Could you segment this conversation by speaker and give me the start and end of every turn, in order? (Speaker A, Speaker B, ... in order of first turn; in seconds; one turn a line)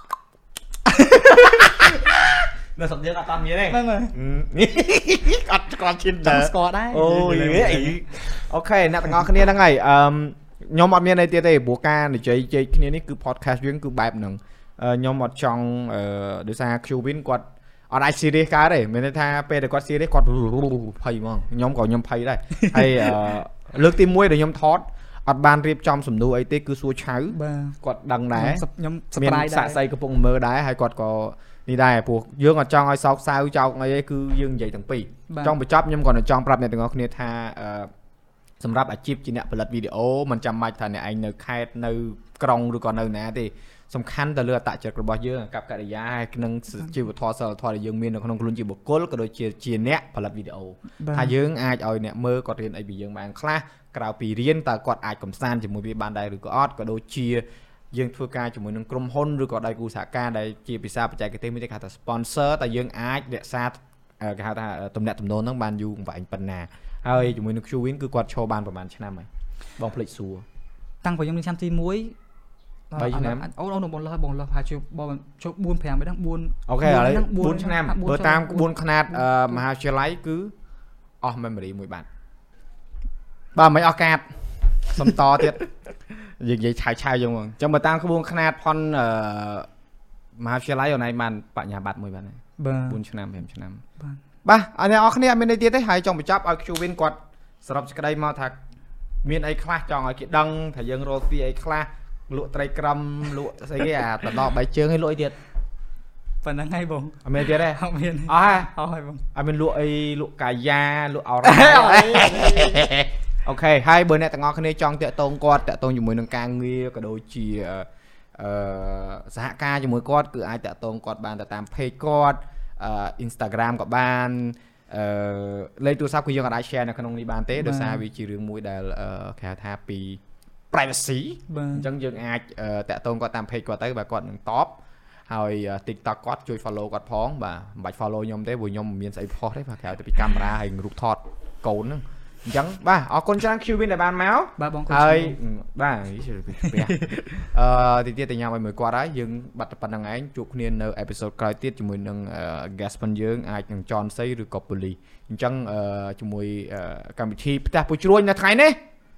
Speaker A: 0.8-2.0
Speaker B: 1.2-28.6
Speaker A: 3.7-4.1
Speaker A: 6.2-8.0
Speaker A: 22.5-23.3
Speaker A: 27.3-27.8
Speaker A: 28.3-29.8
Speaker B: 29.1-37.9
Speaker A: 35.3-35.6
Speaker B: 38.6-69.3
Speaker A: 51.0-51.3
Speaker B: 69.8-70.4
Speaker A: 71.0-72.1
Speaker A: 72.9-79.6
Speaker B: 73.0-73.5
Speaker B: 76.7-80.5
Speaker B: 81.2-82.0
Speaker B: 83.5-84.2
Speaker B: 84.9-85.6
Speaker B: 86.4-89.7
Speaker B: 90.4-93.8
Speaker A: 92.6-93.0
Speaker B: 94.4-98.6
Speaker B: 99.2-105.3
Speaker A: 106.4-109.2
Speaker B: 107.2-108.7
Speaker B: 109.3-117.8
Speaker A: 111.4-112.9
Speaker B: 118.4-130.2
Speaker A: 127.6-128.0
Speaker B: 130.7-134.8
Speaker A: 131.5-131.9
Speaker B: 135.3-158.8
Speaker A: 144.6-145.4
Speaker A: 146.6-147.3